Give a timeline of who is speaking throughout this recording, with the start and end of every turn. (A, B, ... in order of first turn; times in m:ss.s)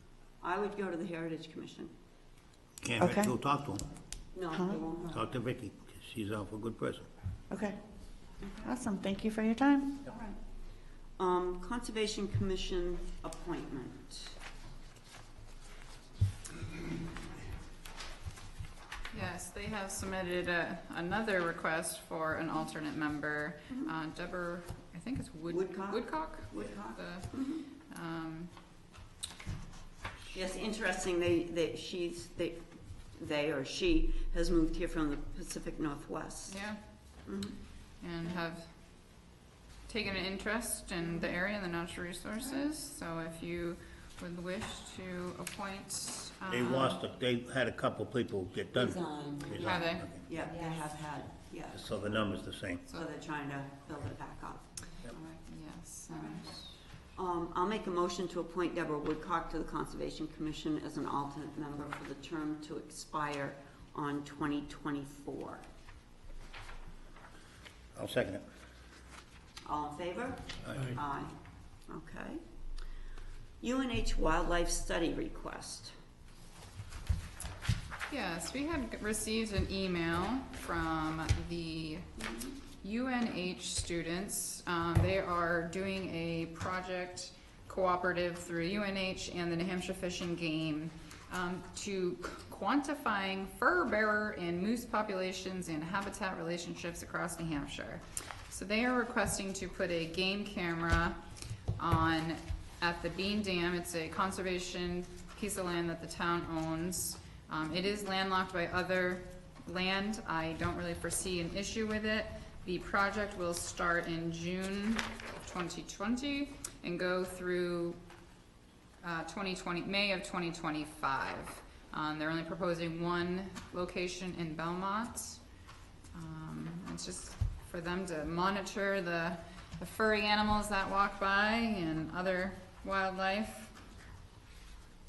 0:00.4-0:01.9 A
0:02.8-0:03.8 B
0:03.0-0:03.3 C
0:04.3-0:05.2 A
0:04.5-0:04.8 C
0:05.1-0:07.1 B
0:07.5-0:07.8 C
0:08.6-0:10.0 C
0:11.2-0:14.4 A
0:19.1-0:28.5 D
0:25.5-0:27.6 A
0:30.3-0:36.6 A
0:36.5-0:36.8 D
0:37.3-0:37.6 A
0:38.0-0:38.7 D
0:39.9-0:47.0 D
0:46.5-0:50.2 B
0:48.7-0:51.8 A
0:49.6-0:50.1 D
0:51.7-0:52.8 B
0:52.9-0:55.2 A
0:55.2-0:56.6 D
0:57.2-1:05.6 A
1:08.0-1:08.4 B
1:09.6-1:11.3 A
1:10.6-1:11.0 B
1:11.9-1:12.4 A
1:13.6-1:15.9 A
1:18.1-1:22.1 D
1:22.2-1:22.5 A
1:22.8-1:41.2 D
1:41.8-1:58.0 D
1:59.0-2:05.4 D
2:06.1-2:13.7 D